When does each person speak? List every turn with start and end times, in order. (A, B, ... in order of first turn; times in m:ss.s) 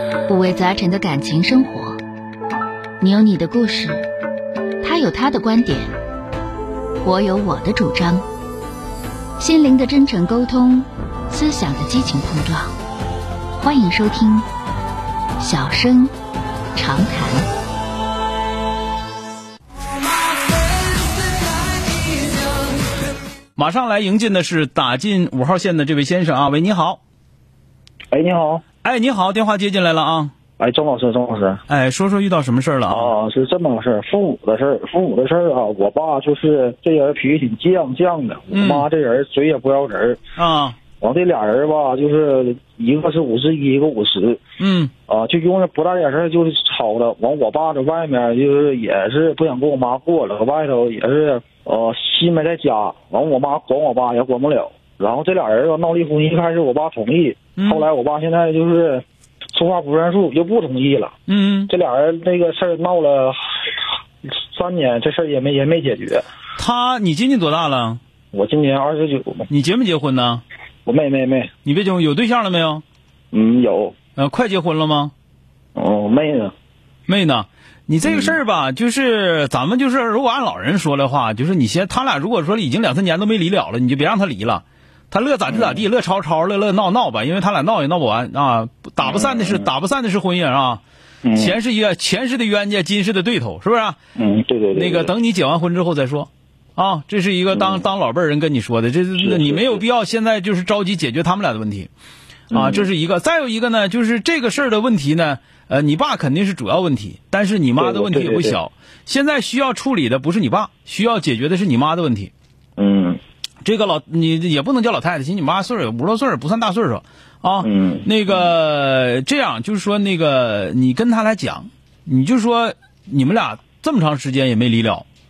0:00.3-0:02.0 A
0:03.0-0:04.0 A
0:04.8-0:05.9 A
0:07.0-0:08.2 A
0:09.4-0:12.7 A
0:13.6-0:14.5 A
0:15.4-0:16.1 A
0:16.8-0:17.5 A
0:23.6-0:27.0 B
0:28.1-0:28.6 C
0:28.8-0:30.3 B
0:30.6-0:31.6 C
0:31.7-0:33.1 B
0:32.9-0:40.2 C
0:38.5-0:38.8 B
0:40.4-0:40.8 B
0:41.0-0:44.4 C
0:44.6-0:44.9 B
0:45.1-1:01.1 C
0:57.6-0:57.8 B
1:01.3-1:01.7 B
1:01.7-1:03.4 C
1:04.2-1:06.2 C
1:06.6-1:08.0 B
1:08.3-1:09.5 C
1:09.5-1:10.4 B
1:10.8-1:11.5 C
1:11.6-1:12.8 B
1:13.3-1:13.9 C
1:14.2-1:15.1 B
1:15.7-1:16.5 C
1:17.1-1:30.8 B
1:18.0-1:18.4 C
1:25.5-1:25.8 C
1:29.0-1:29.7 C
1:31.2-1:31.6 C
1:31.4-1:34.0 B
1:34.2-1:35.1 C
1:34.7-1:41.9 B
1:37.5-1:37.9 C
1:39.2-1:39.8 C
1:42.5-1:42.9 C
1:42.5-1:52.3 B
1:47.8-1:48.6 C
1:52.8-1:53.2 C
1:53.6-2:05.0 B
1:57.6-1:58.5 C